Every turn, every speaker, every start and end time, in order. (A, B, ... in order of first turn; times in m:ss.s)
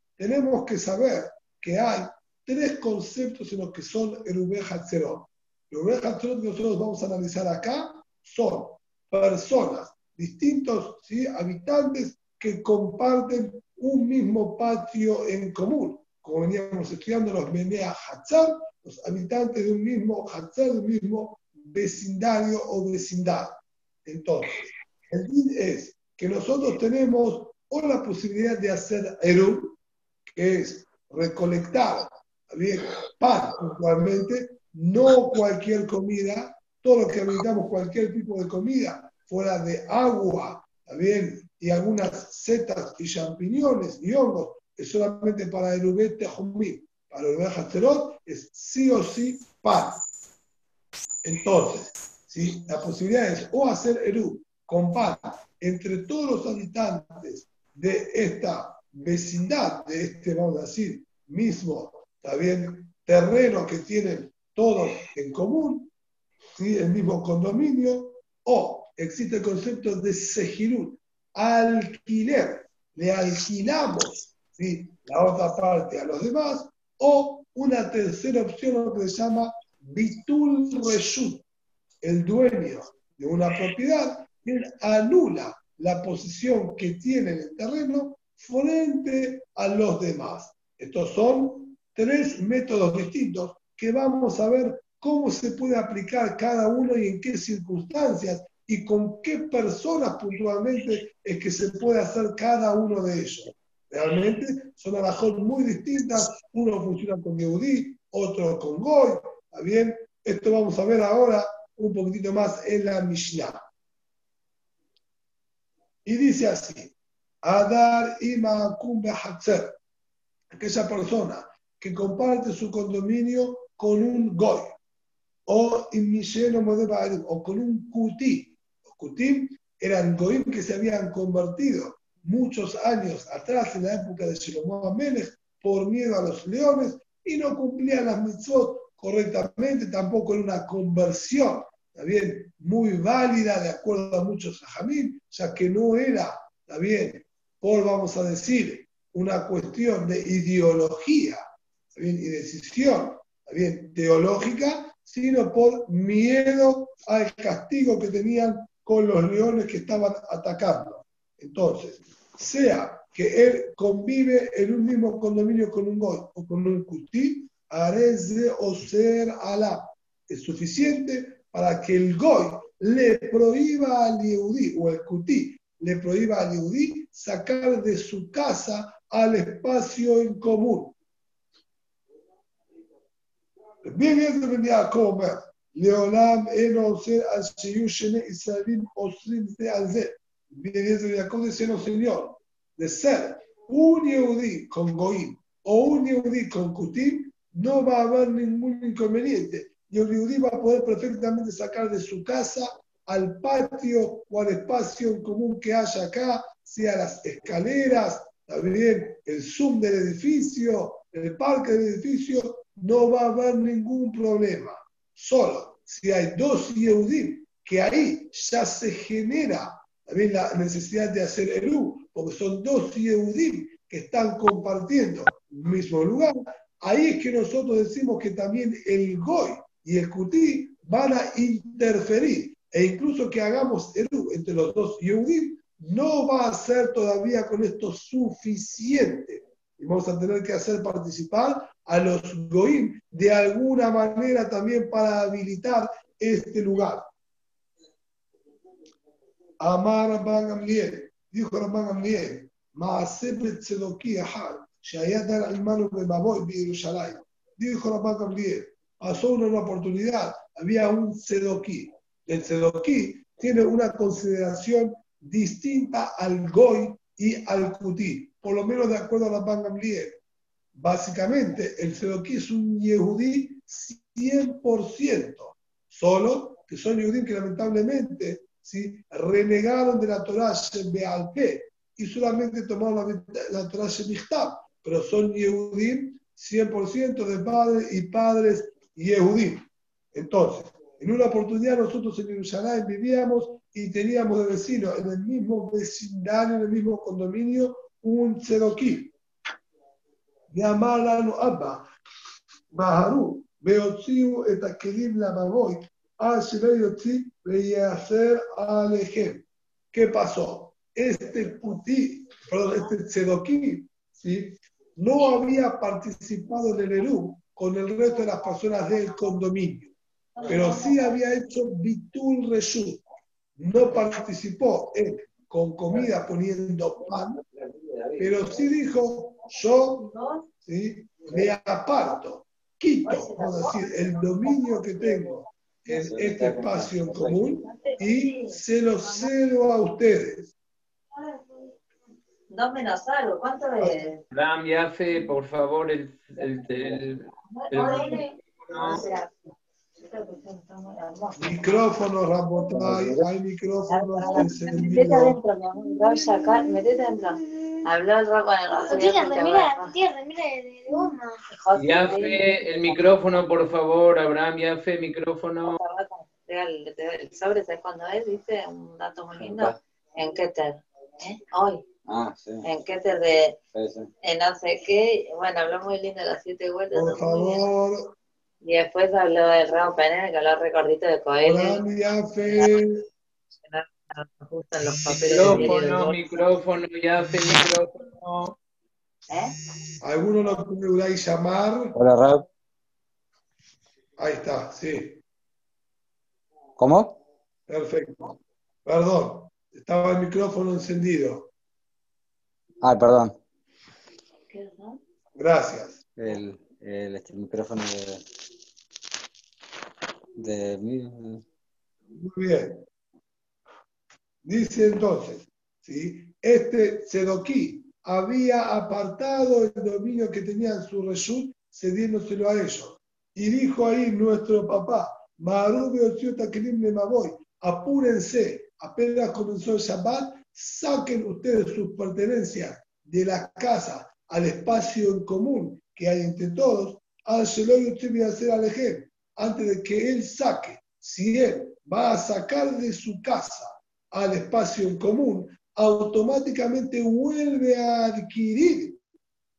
0:00.2-0:29.8 A
0:30.4-0:50.0 A
0:51.2-1:05.9 A
1:06.6-1:21.4 A
1:22.0-1:53.6 A
1:56.1-1:59.8 A
2:00.5-2:04.8 A
2:05.5-2:31.4 A
2:31.9-3:00.9 A
3:03.9-4:07.1 A
4:09.6-4:30.2 A
4:30.7-4:59.1 A
5:00.5-5:01.9 A
5:02.7-5:19.9 A
5:20.5-5:23.0 A
5:23.6-5:27.4 A
5:27.6-5:28.3 B
5:28.2-5:30.1 A
5:30.0-5:30.4 C
5:30.6-5:40.5 A
5:33.1-5:34.1 C
5:35.9-5:37.6 B
5:37.7-5:38.5 C
5:41.2-5:41.6 C
5:42.5-5:44.2 C
5:44.3-5:49.1 D
5:47.6-5:49.3 C
5:50.0-5:51.4 C
5:51.4-5:55.4 A
5:52.8-5:53.2 B
5:53.9-5:59.9 C
5:58.8-6:01.4 E
6:01.5-6:03.1 C
6:01.7-6:05.8 D
6:05.6-6:11.8 C
6:09.4-6:09.8 B
6:12.1-6:12.6 B
6:12.6-6:13.6 C
6:13.7-6:14.1 B
6:14.2-6:17.6 C
6:16.9-6:18.1 A
6:18.6-6:21.8 C
6:21.4-6:23.0 A
6:23.6-6:26.6 C
6:25.0-6:28.6 D
6:30.0-6:32.0 A
6:32.0-6:32.4 B
6:34.2-6:35.2 A
6:36.8-6:37.2 B
6:37.7-6:41.5 A
6:42.8-6:43.4 B
6:44.5-6:45.0 C
6:45.4-6:46.0 A
6:46.2-6:48.2 B
6:50.4-6:51.4 B
6:52.1-6:52.8 A
6:54.4-7:29.0 A